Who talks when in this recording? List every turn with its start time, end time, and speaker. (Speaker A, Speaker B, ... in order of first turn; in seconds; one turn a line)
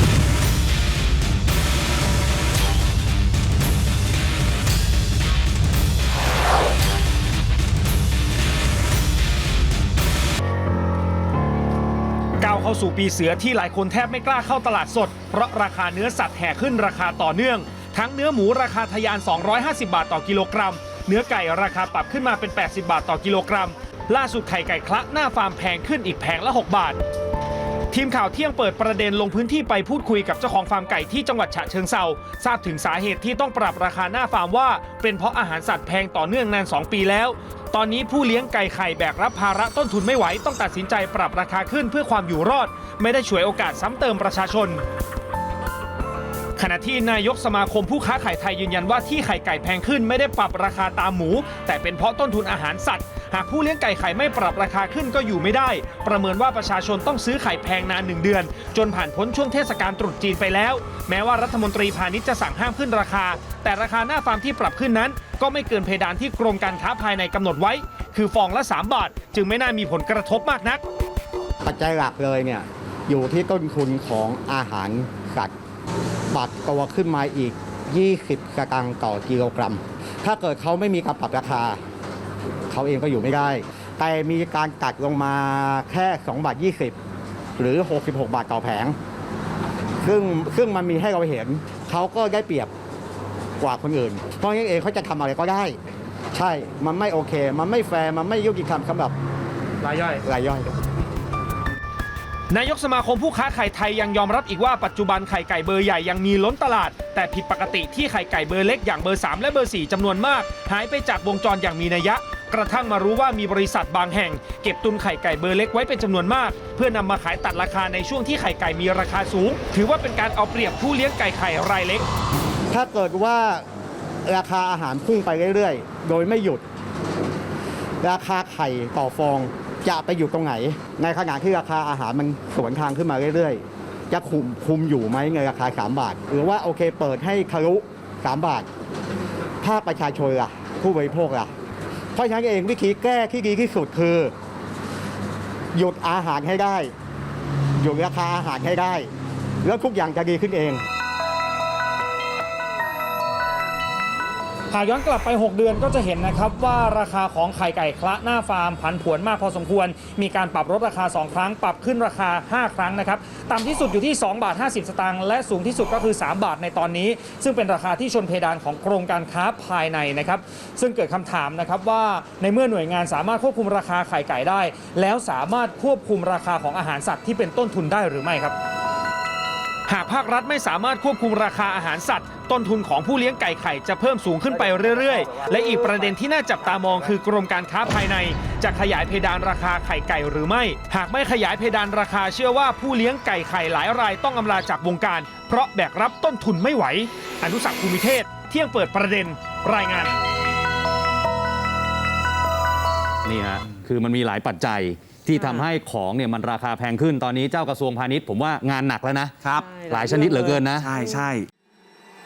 Speaker A: 12.4-27.0
Speaker A: 27.9-44.8
Speaker A: 46.6-70.8
Speaker B: 71.6-75.5
Speaker B: 76.3-81.8
Speaker B: 82.7-87.0
Speaker B: 87.6-89.0
Speaker B: 90.0-92.7
Speaker B: 93.6-95.8
Speaker B: 96.3-99.1
Speaker A: 99.8-100.2
Speaker B: 100.2-100.7
Speaker A: 102.5-122.0
Speaker B: 122.7-123.6
Speaker B: 124.2-126.6
Speaker B: 128.0-138.7
Speaker B: 139.6-141.5
Speaker B: 142.1-144.3
Speaker B: 145.7-146.9
Speaker B: 147.8-149.1
Speaker B: 149.6-150.8
Speaker A: 154.7-178.6
Speaker A: 179.9-200.1
Speaker C: 203.2-211.0
Speaker D: 209.4-211.5